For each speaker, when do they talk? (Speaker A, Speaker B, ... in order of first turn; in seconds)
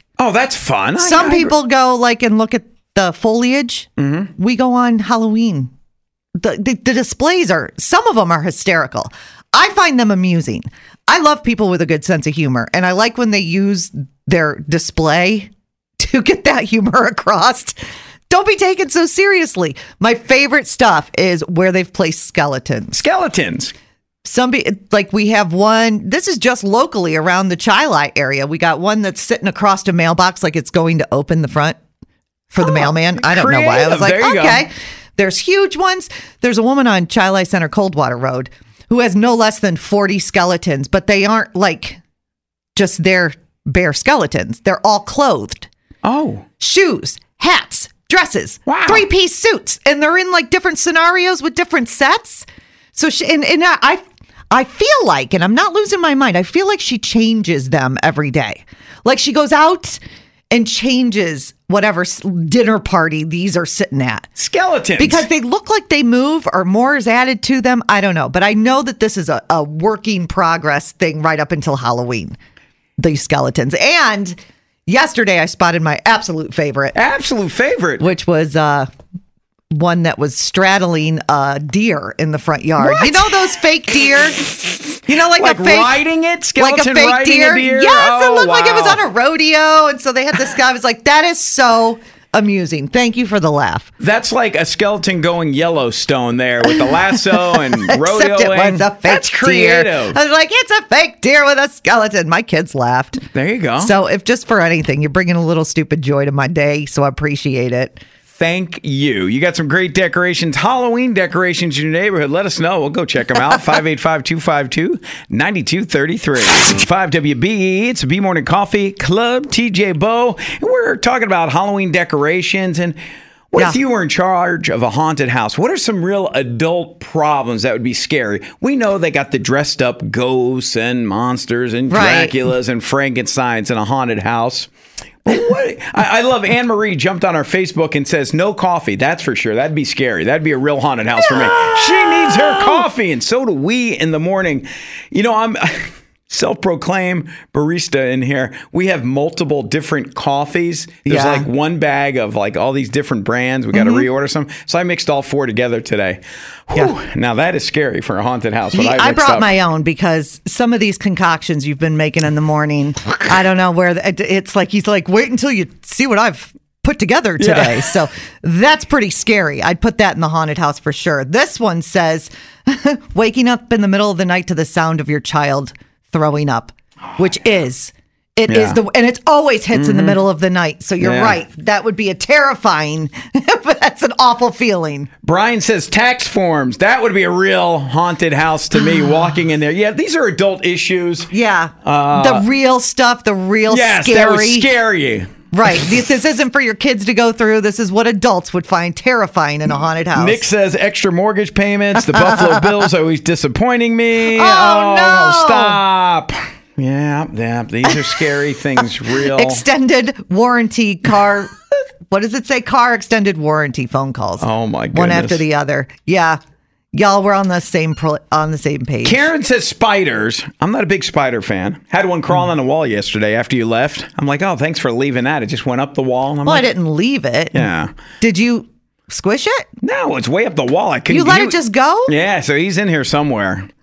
Speaker A: 0.2-1.5, 4.0-4.3, 22.9-23.7, 32.6-34.6, 46.0-46.4, 48.6-49.0, 64.3-65.2, 76.9-78.1, 82.8-83.2, 85.2-89.0, 94.0-100.2, 103.3-103.9, 108.3-123.0, 123.5-134.7, 135.2-159.5, 167.4-167.9, 178.5-178.8, 179.7-180.2, 181.0-181.4, 185.2-191.3, 191.8-192.4, 193.7-195.9, 200.1-209.6, 214.4-215.4, 219.0-226.7, 227.5-227.9, 229.8-233.7
Speaker B: 1.0-5.7, 6.4-17.8, 18.3-23.0, 24.2-31.8, 32.5-42.0, 42.8-45.7, 46.6-60.0, 60.5-64.3, 65.0-72.3, 73.0-77.0, 78.0-78.9, 79.7-84.5, 85.1-86.0, 86.6-93.9, 98.0-103.2, 103.8-108.0, 131.9-132.3, 151.1-151.5, 153.7-154.1, 158.7-185.1, 188.8-189.1, 191.3-194.7, 195.5-200.4, 204.3-205.8, 209.2-211.5, 212.1-216.4, 216.9-219.3, 226.4-227.7, 228.2-229.6, 231.1-232.1